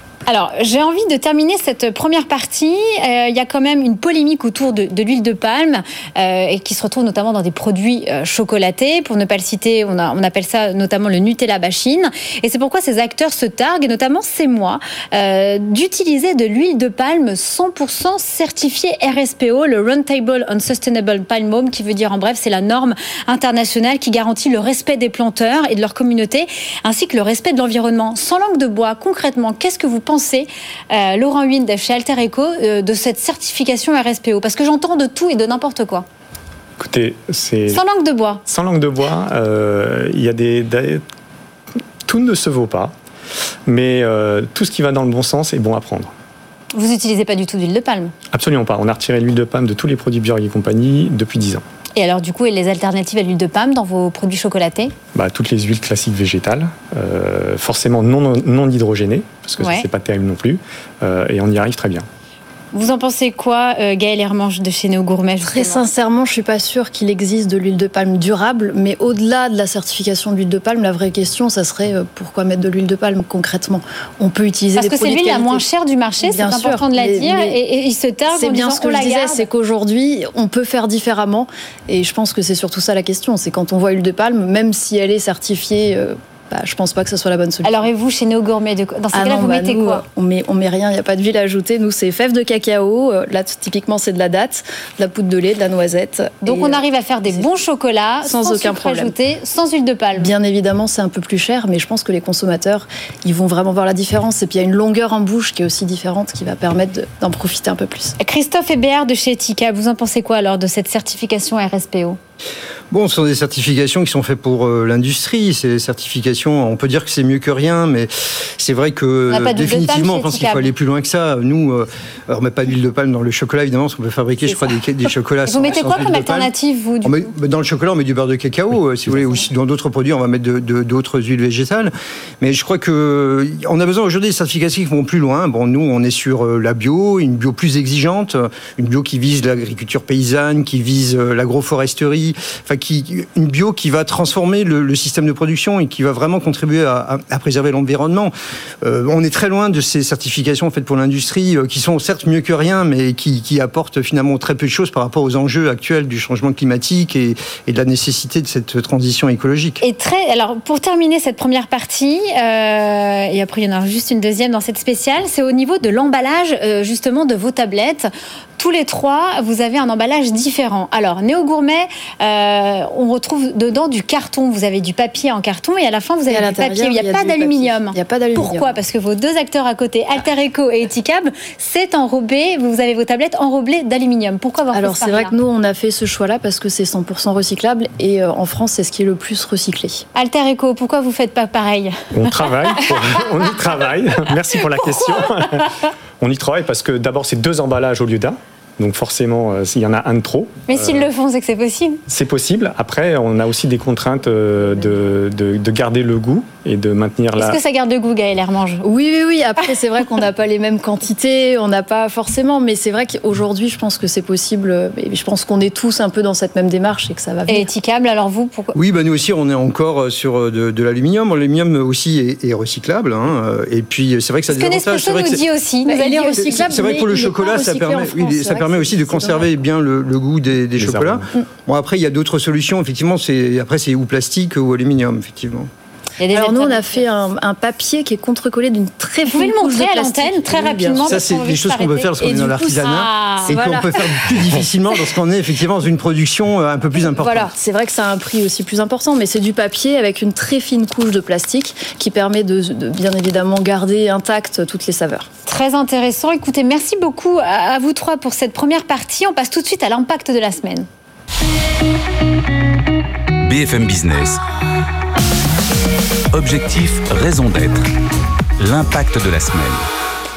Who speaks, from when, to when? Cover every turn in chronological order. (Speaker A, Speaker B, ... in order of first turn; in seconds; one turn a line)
Speaker A: 0.3-36.0
Speaker B: 36.8-37.8
Speaker A: 37.7-38.4
Speaker B: 38.5-41.0
Speaker B: 42.0-42.9
Speaker B: 43.6-46.1
Speaker A: 46.7-48.1
Speaker B: 48.3-51.6
Speaker A: 52.0-54.9
Speaker B: 55.1-62.0
Speaker A: 59.6-59.9
Speaker A: 62.7-65.8
Speaker C: 65.5-75.6
Speaker A: 74.8-79.5
Speaker C: 76.2-77.5
Speaker C: 78.3-87.8
Speaker A: 87.6-90.0
Speaker C: 89.1-97.5
Speaker A: 96.4-100.3
Speaker C: 98.2-99.1
Speaker C: 100.2-108.2
Speaker A: 108.2-112.2
Speaker D: 112.9-126.5
Speaker A: 119.3-120.7
Speaker A: 125.5-127.3
Speaker D: 127.0-159.8
Speaker A: 159.8-185.3
Speaker C: 176.3-178.7
Speaker C: 184.7-190.0
Speaker A: 190.1-193.2
Speaker B: 192.1-201.1
Speaker A: 194.6-195.8
Speaker A: 200.7-202.0
Speaker B: 202.1-207.6
Speaker A: 207.4-208.9
Speaker C: 208.8-217.7
Speaker A: 217.5-218.8
Speaker D: 218.7-225.4
Speaker A: 224.5-226.6
Speaker C: 225.9-229.5
Speaker D: 226.5-235.7
Speaker B: 230.8-231.3
Speaker A: 236.2-237.0
Speaker C: 236.3-241.2
Speaker A: 239.2-243.6
Speaker D: 241.0-247.5
Speaker C: 243.5-244.5
Speaker C: 247.0-255.3
Speaker A: 255.4-260.9
Speaker E: 263.4-264.4
Speaker E: 266.3-267.9
Speaker E: 268.6-269.9